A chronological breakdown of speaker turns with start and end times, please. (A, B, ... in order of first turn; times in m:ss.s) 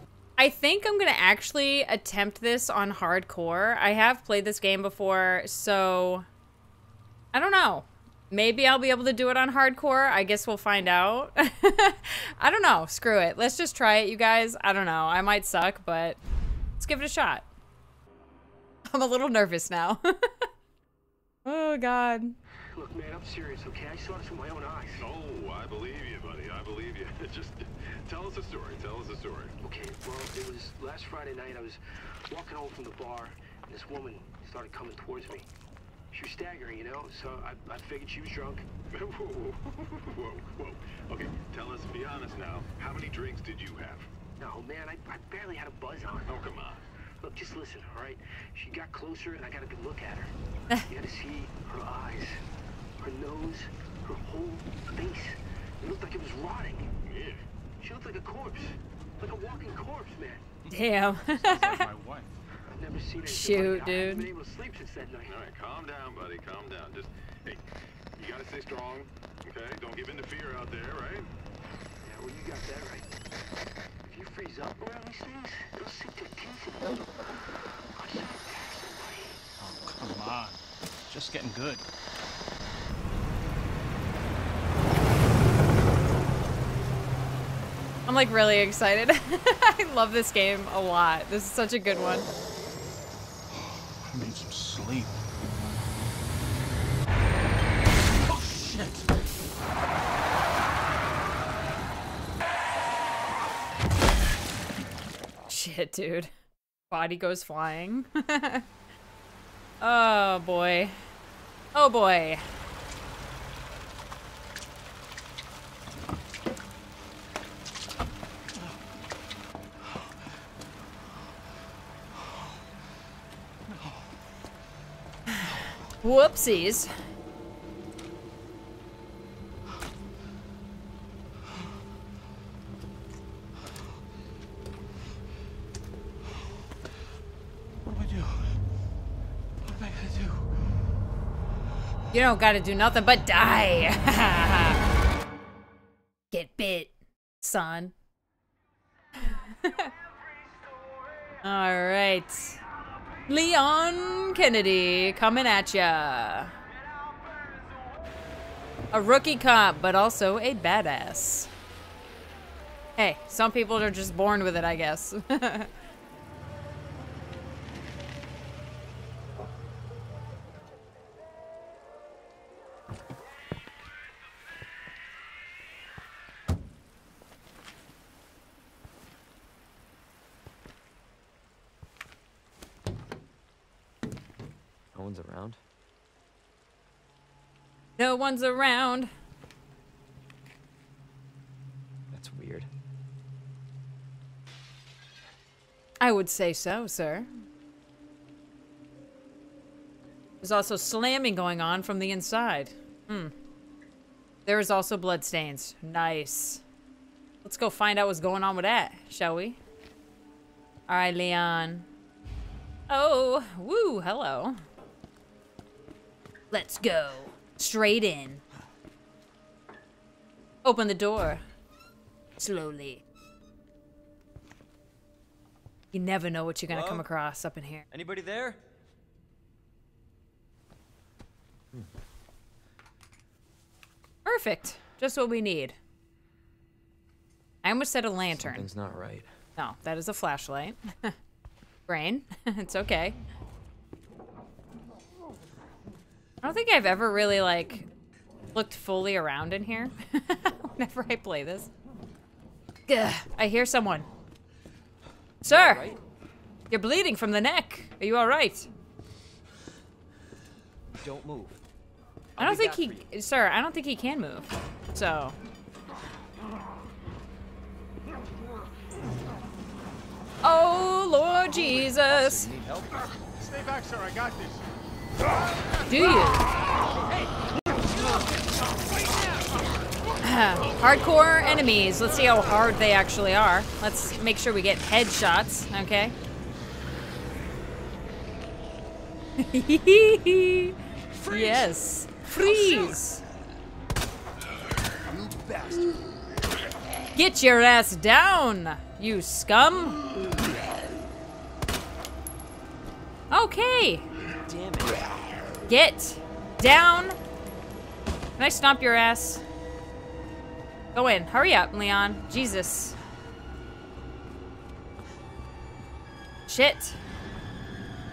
0:00.4-0:06.3 A
0:07.3-0:16.2 A
0:16.8-0:17.5 A
0:18.9-0:20.5 A
0:21.4-0:22.4 A
0:22.7-0:25.0 B
0:25.0-0:29.6 C
0:29.6-0:35.5 B
0:36.1-0:39.7 B
0:39.8-0:44.1 C
0:44.4-0:46.5 B
0:46.3-0:46.8 C
0:47.2-0:50.3 B
0:50.9-0:52.4 B
0:53.0-0:56.9 B
0:57.1-0:57.4 C
0:57.8-1:00.5 B
1:00.7-1:01.9 A
1:01.3-1:02.3 D
1:02.7-1:05.4 B
1:03.2-1:04.3 A
1:05.3-1:07.6 C
1:08.2-1:11.3 C
1:12.0-1:13.1 B
1:14.1-1:17.2 B
1:18.0-1:19.4 B
1:19.6-1:21.8 D
1:28.1-1:32.3 A
1:34.1-1:35.2 D
1:38.4-1:38.9 D
1:45.5-1:46.3 A
1:46.9-1:48.6 A
1:49.8-1:51.0 A
1:51.7-1:52.4 A
2:05.3-2:06.9 A
2:19.8-2:20.1 D
2:22.1-2:24.8 A
2:26.3-2:27.9 A
2:29.2-2:29.9 A
2:31.4-2:32.6 A
2:33.3-2:36.5 A
2:38.9-2:41.5 A
2:43.0-2:45.7 A
3:04.9-3:05.6 E
3:08.0-3:09.1 A
3:12.1-3:12.7 E
3:16.0-3:17.3 A
3:20.4-3:23.3 A
3:24.5-3:26.6 A
3:27.4-3:29.6 A
3:30.9-3:31.9 A
3:32.9-3:34.6 A
3:36.5-3:38.4 A
3:40.6-3:41.4 A
3:42.4-3:43.0 A
3:45.9-3:47.9 A
3:46.7-3:47.1 E
3:47.9-3:48.6 E
3:54.2-3:55.8 A
3:57.6-3:58.7 A
3:58.4-3:59.3 E
3:59.6-4:01.2 A
4:01.9-4:03.2 A
4:06.4-4:07.9 A
4:08.5-4:11.7 A
4:12.9-4:14.1 A
4:15.4-4:15.9 A
4:15.4-4:16.0 E
4:16.7-4:18.7 A
4:21.0-4:21.6 E
4:22.4-4:23.1 E
4:22.4-4:25.4 A
4:30.4-4:32.5 A
4:31.5-4:33.1 E
4:33.4-4:34.6 D
4:35.9-4:36.5 A
4:40.2-4:46.2 A
4:49.4-4:53.2 A
4:51.3-4:51.7 E
4:55.1-4:55.9 E
4:57.2-5:00.0 A
5:03.3-5:04.1 A
5:04.4-5:05.0 E
5:05.7-5:07.2 A
5:08.4-5:09.4 A
5:10.9-5:13.0 A
5:16.5-5:17.0 A